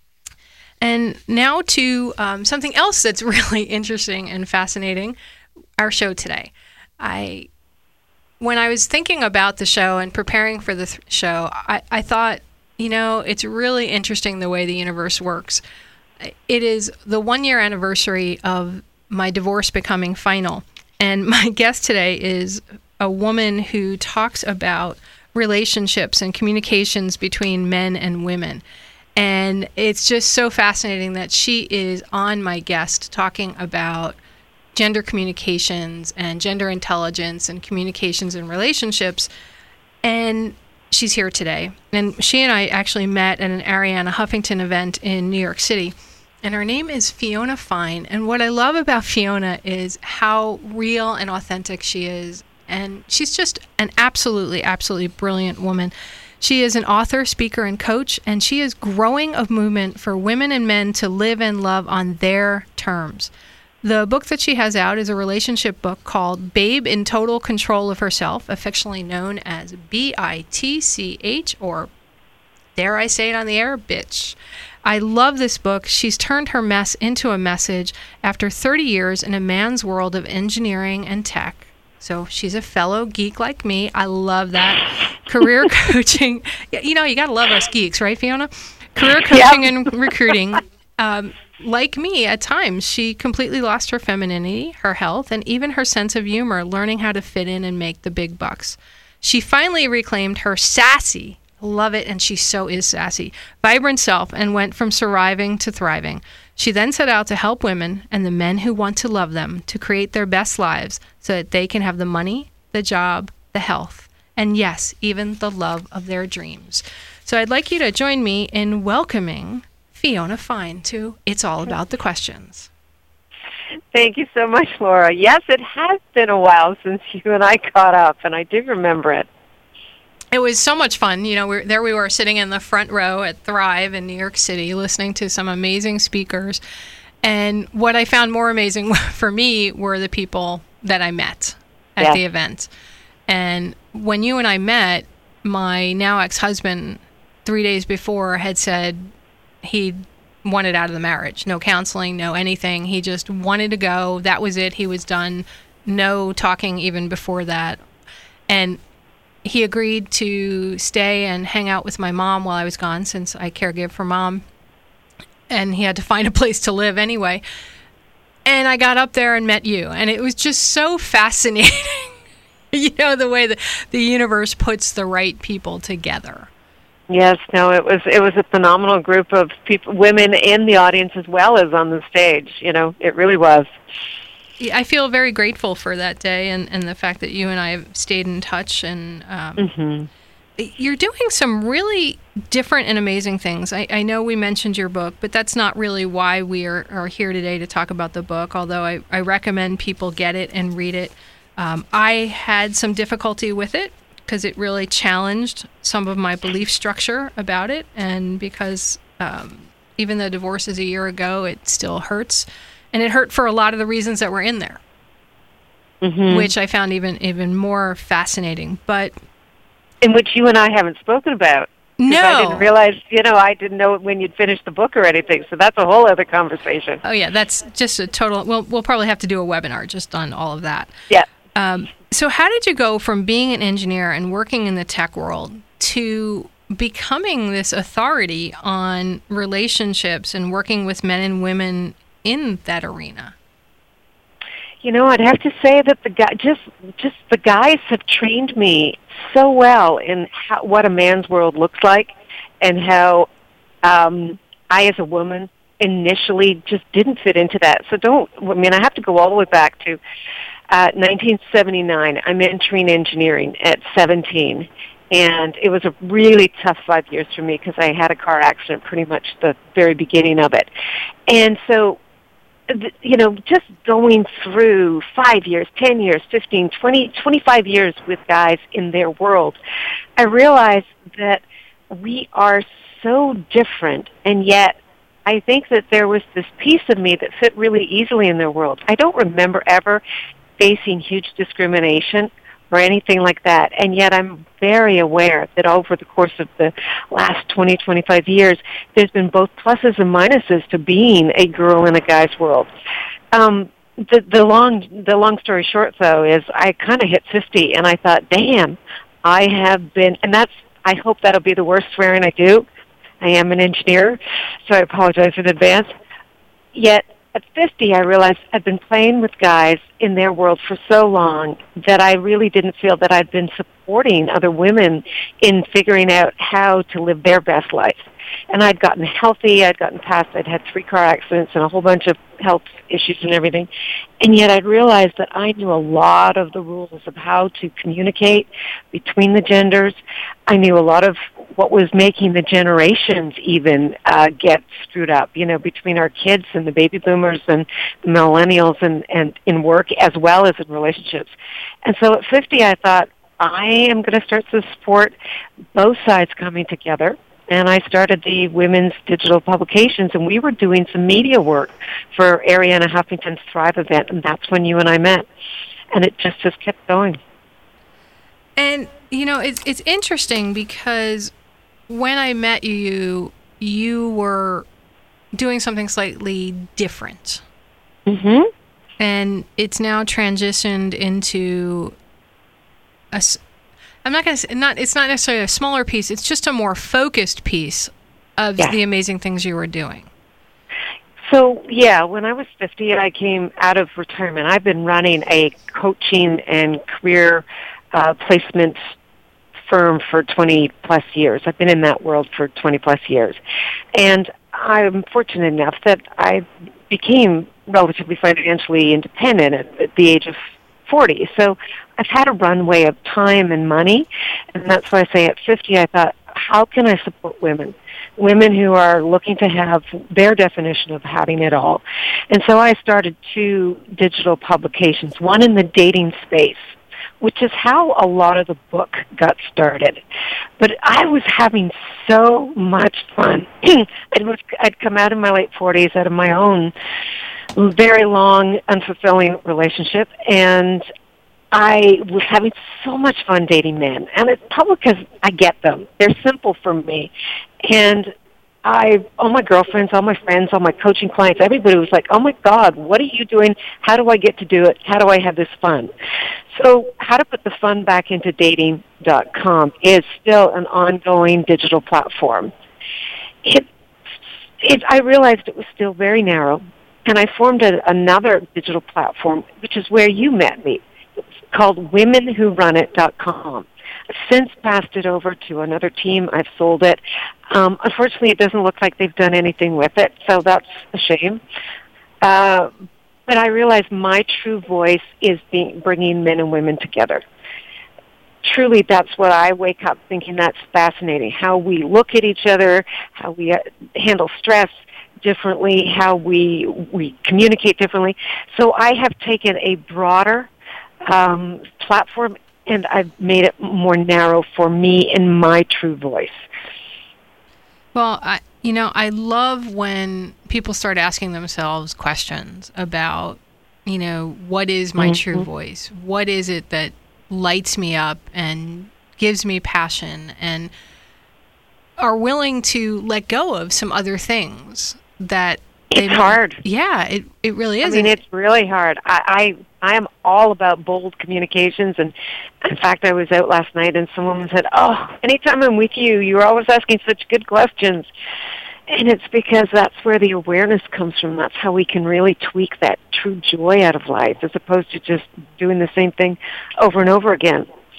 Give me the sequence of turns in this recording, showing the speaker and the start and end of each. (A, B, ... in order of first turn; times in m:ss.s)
0:00.8-0:05.2 A
0:05.8-0:07.5 A
0:08.4-0:15.6 A
0:16.2-0:28.6 A
0:29.2-0:34.2 A
0:34.7-0:39.3 A
0:40.0-1:03.3 A
1:03.8-1:11.9 A
1:12.8-2:02.7 A
1:29.3-1:29.7 B
2:03.9-2:09.3 B
2:10.3-2:16.6 A
2:17.2-2:22.7 A
2:23.3-2:29.1 A
2:29.6-2:37.8 A
2:38.5-2:38.8 A
2:39.4-2:44.4 A
2:45.5-2:47.4 A
2:48.4-2:52.2 A
2:52.7-2:56.5 A
2:57.1-3:03.7 B
3:04.6-3:09.7 A
3:09.6-3:10.1 B
3:10.6-3:34.8 A
3:36.0-3:36.5 B
3:36.3-3:39.2 A
3:40.0-3:47.0 B
3:42.0-3:42.6 A
3:47.0-3:50.9 A
3:51.5-4:03.3 A
4:04.8-4:13.3 B
4:13.8-4:20.0 B
4:20.7-4:30.7 B
4:31.3-4:32.0 B
4:32.7-4:39.6 B
4:40.2-4:50.0 B
4:50.6-5:02.7 B
5:03.3-5:12.6 B
5:13.2-5:15.9 B
5:16.7-5:33.7 B
5:34.2-5:51.3 B
5:51.8-5:55.1 B
5:55.7-6:05.3 B
6:05.9-6:07.2 B
6:08.6-6:11.3 A
6:11.9-6:14.6 A
6:15.3-6:17.4 A
6:18.1-6:18.5 B
6:19.0-6:21.9 A
6:23.1-6:23.4 A
6:24.0-6:30.1 A
6:31.3-6:38.8 B
6:39.6-6:43.4 B
6:44.0-7:06.7 B
7:07.2-7:10.0 B
7:10.6-7:16.7 B
7:17.6-7:20.8 B
7:21.5-7:27.1 B
7:27.6-7:28.1 B
7:28.6-7:35.9 B
7:36.5-7:42.5 B
7:44.6-7:50.8 B
7:51.5-8:01.4 B
8:02.2-8:02.7 B
8:03.3-8:07.2 B
8:08.4-8:20.5 B
8:21.1-8:26.4 B
8:27.9-8:40.7 A
8:35.0-8:35.4 B
8:42.0-8:48.2 A
8:45.9-8:46.6 B
8:47.8-8:58.1 B
8:58.9-9:07.7 B